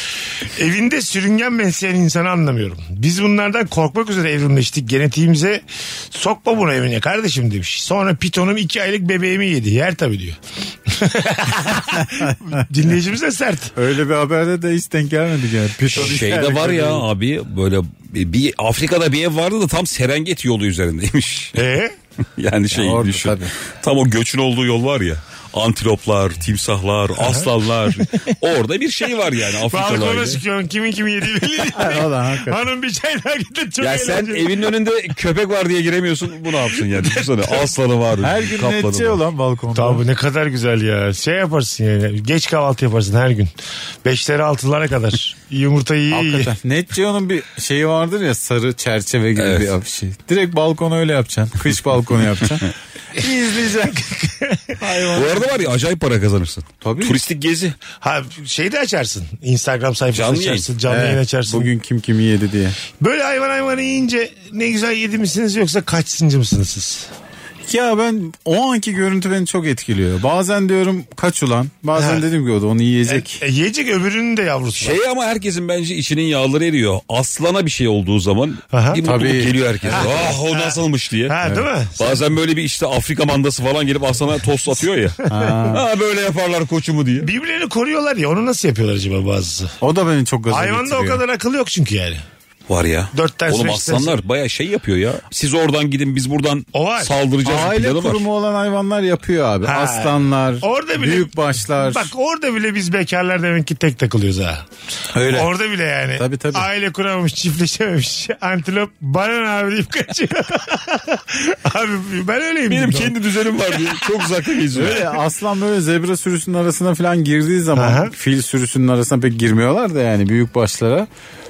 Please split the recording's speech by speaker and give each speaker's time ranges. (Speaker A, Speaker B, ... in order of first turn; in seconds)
Speaker A: 0.5-13.7, 21.5-21.9, 27.2-27.5, 29.7-34.7, 36.7-37.6, 39.7-43.5, 44.0-46.5, 53.2-54.8, 58.0-61.7, 63.0-67.1, 72.0-72.2, 73.1-75.0, 78.7-79.0, 79.9-82.2, 85.3-85.7, 87.2-89.7, 90.5-92.2, 93.1-94.2, 96.7-97.1, 99.6-104.6, 105.2-113.2, 113.7-114.1, 117.7-118.1
Speaker B: 13.8-17.1, 22.7-23.5, 31.7-32.6, 38.2-40.0, 46.1-54.0, 54.8-55.6, 56.8-57.2, 60.9-62.8, 67.7-73.4, 79.0-80.1, 85.3-85.8, 89.8-91.2, 97.4-102.1, 105.1-105.5, 106.2-106.7, 114.7-121.1
Speaker C: 15.9-21.5, 22.4-30.4, 33.8-39.2, 49.4-49.7, 55.1-57.8, 60.1-60.7, 74.8-81.3, 82.0-85.2, 85.7-87.3, 92.7-98.2, 112.7-115.1